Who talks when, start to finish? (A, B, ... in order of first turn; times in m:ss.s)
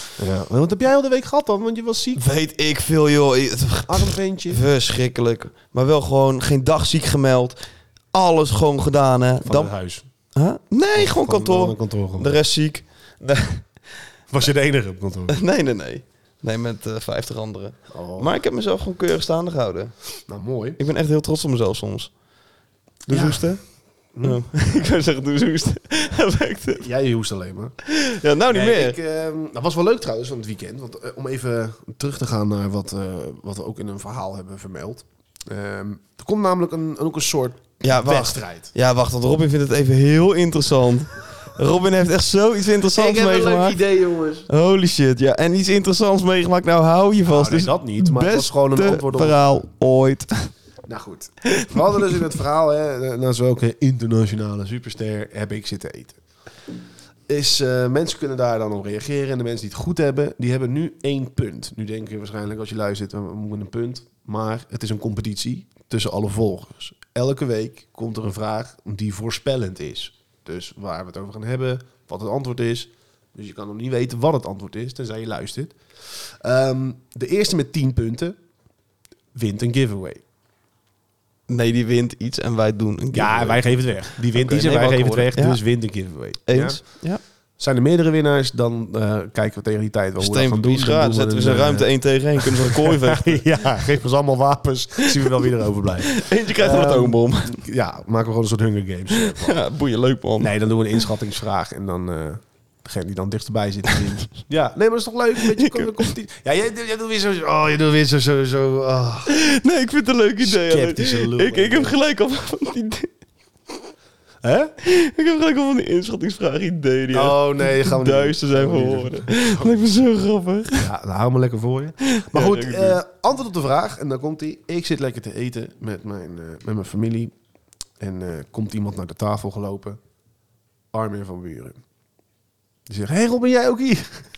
0:00.2-0:02.2 A
0:02.2-0:07.6 B
0:03.9-0:04.6 A
0:08.1-0:09.7 B
0:09.4-0:10.0 A
0:10.3-0:13.7 B
0:10.9-0:12.4 A
0:14.3-0:15.4 A
0:15.3-0:20.0 B
0:17.9-0:18.3 A
0:20.3-0:20.8 A
0:20.8-0:22.1 B
0:23.1-0:23.5 A
0:23.1-0:23.6 B
0:24.1-0:24.4 A
0:24.2-0:26.8 B
0:26.8-0:27.7 A
0:27.8-0:29.0 B
0:28.5-0:38.7 A
0:37.8-0:43.8 B
0:42.9-0:44.5 A
0:44.5-0:50.5 B
0:47.2-0:49.4 A
0:50.8-0:56.2 A
0:51.5-0:52.1 B
0:57.3-1:18.4 A
1:19.3-1:20.2 A
1:21.5-1:23.6 B
1:23.1-1:27.0 A
1:24.3-1:25.6 B
1:26.4-1:27.2 B
1:27.6-1:39.6 A
1:30.2-1:33.7 B
1:35.0-1:35.4 B
1:36.1-1:37.6 B
1:39.1-1:40.5 B
1:40.4-1:49.3 A
1:45.4-1:46.1 B
1:49.3-1:53.1 B
1:50.4-1:52.0 A
1:54.4-1:54.7 A
1:54.8-2:00.9 B
1:57.1-1:59.7 A
2:00.8-2:07.3 A
2:02.1-2:03.0 B
2:08.0-2:10.0 A
2:10.9-2:11.8 A
2:12.9-2:14.3 A